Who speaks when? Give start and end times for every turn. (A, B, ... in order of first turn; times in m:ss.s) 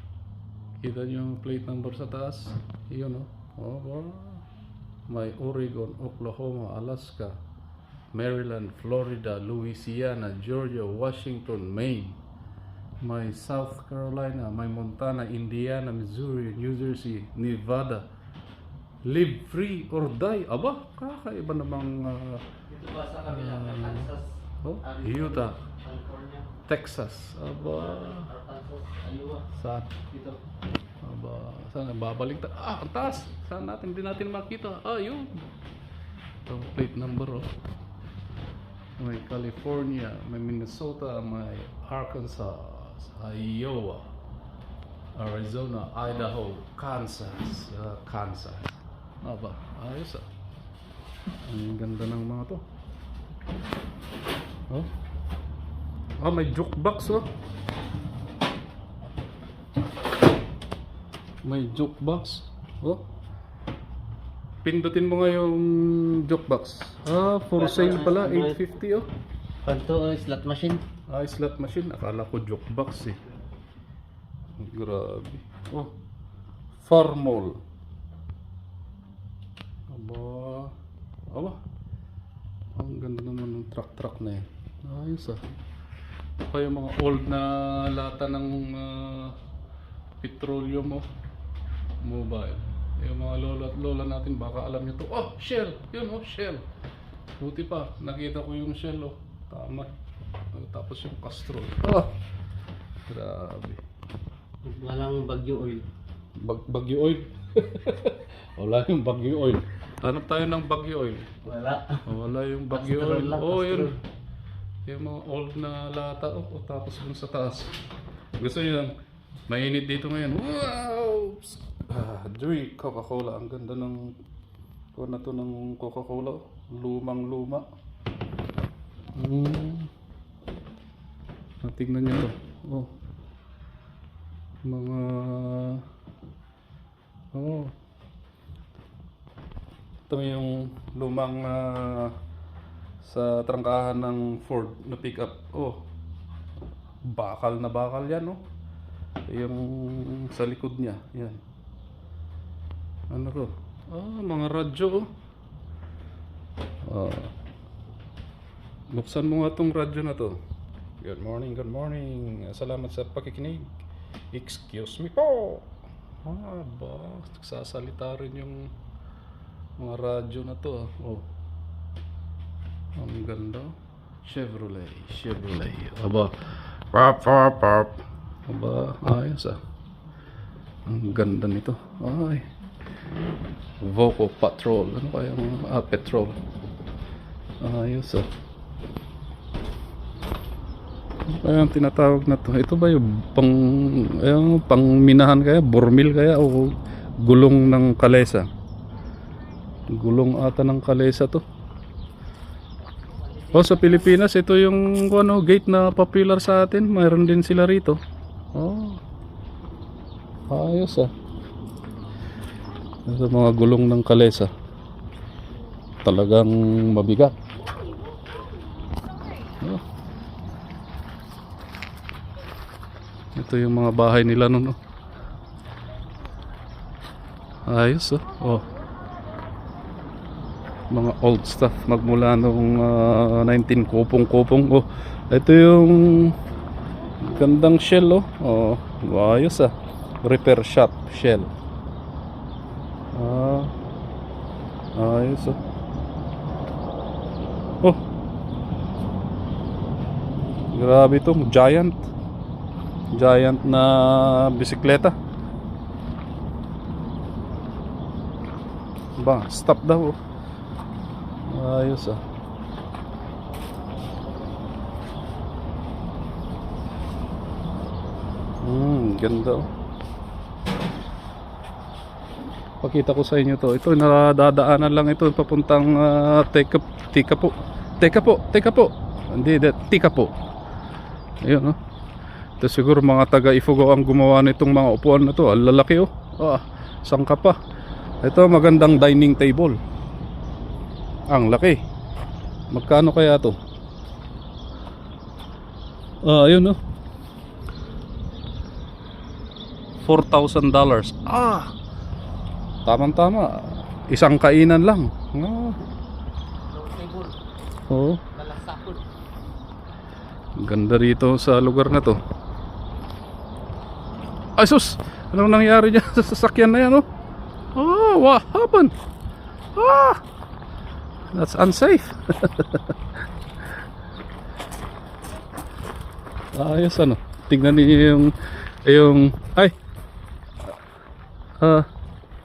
0:00.8-0:04.4 A
0:05.1-0:07.4 A
0:08.1-0:12.2 A
0:13.0-0:18.0 A
0:19.0-0:22.4 A
0:22.7-0:26.5 B
0:23.3-0:24.1 A
0:24.6-0:25.6 A
0:26.6-0:28.3 A
0:27.6-0:29.5 B
0:29.6-0:30.0 A
0:30.1-0:30.4 B
0:31.0-0:35.4 A
0:36.5-0:37.5 A
0:39.0-0:44.1 A
0:45.2-0:50.3 A
0:51.4-0:52.6 A
0:56.2-0:57.3 A
1:01.4-1:03.0 A
1:04.6-1:09.1 A
1:07.6-1:08.6 B
1:09.6-1:10.8 B
1:11.1-1:13.2 A
1:14.6-1:15.9 A
1:16.8-1:17.6 A
1:19.9-1:20.7 A
1:21.3-1:21.6 A
1:22.8-1:25.5 A
1:26.5-1:29.4 A
1:30.2-1:31.1 A
1:32.0-1:36.6 A
1:37.4-1:39.9 A
1:40.5-1:42.2 A
1:43.1-1:43.8 A
1:44.6-1:45.9 B
1:46.4-1:51.3 A
1:51.4-1:52.1 B
1:52.1-1:53.9 A
1:52.7-1:54.0 B
1:54.9-1:57.7 A
1:58.4-1:58.9 A
1:59.5-2:04.2 A
2:04.9-2:07.6 A
2:09.2-2:09.9 A
2:11.6-2:12.9 A
2:14.6-2:15.8 A
2:17.3-2:17.7 A
2:20.1-2:22.1 A
2:23.0-2:25.8 A
2:27.0-2:28.4 A
2:29.3-2:31.4 A
2:33.1-2:35.1 A
2:36.8-2:37.3 A
2:38.9-2:40.4 A
2:41.0-2:43.8 A
2:44.3-2:45.7 A
2:46.2-2:48.7 A
2:49.8-2:51.3 A
2:53.0-2:56.4 A
2:56.9-2:59.6 A
3:00.9-3:02.5 A
3:03.8-3:06.4 A
3:07.6-3:08.3 A
3:11.3-3:18.5 A
3:19.9-3:21.4 A
3:23.1-3:24.2 B
3:23.5-3:28.0 A
3:28.5-3:29.0 A
3:30.5-3:31.1 A
3:33.1-3:34.5 A
3:36.0-3:37.3 A
3:43.4-3:44.8 A
3:47.7-3:48.6 A
3:50.9-3:56.4 A
3:57.2-4:01.5 A
4:03.1-4:03.7 A
4:05.0-4:05.6 A
4:10.7-4:12.1 A
4:13.1-4:15.2 A
4:19.2-4:20.2 A
4:21.4-4:22.2 A
4:28.6-4:29.7 A
4:32.8-4:40.3 A
4:41.4-4:41.8 A
4:42.6-4:47.6 A
4:48.2-4:49.8 A
4:51.3-4:51.8 A
4:52.7-4:53.6 A
4:56.2-4:56.8 A
5:00.0-5:01.7 A
5:02.8-5:03.5 A
5:04.1-5:05.8 A
5:06.7-5:07.4 B
5:07.9-5:08.2 A
5:08.3-5:09.0 B
5:10.6-5:12.2 A
5:14.6-5:17.0 A
5:17.8-5:18.9 A
5:19.8-5:20.2 A
5:21.3-5:23.0 A
5:26.6-5:29.8 A
5:31.6-5:31.9 A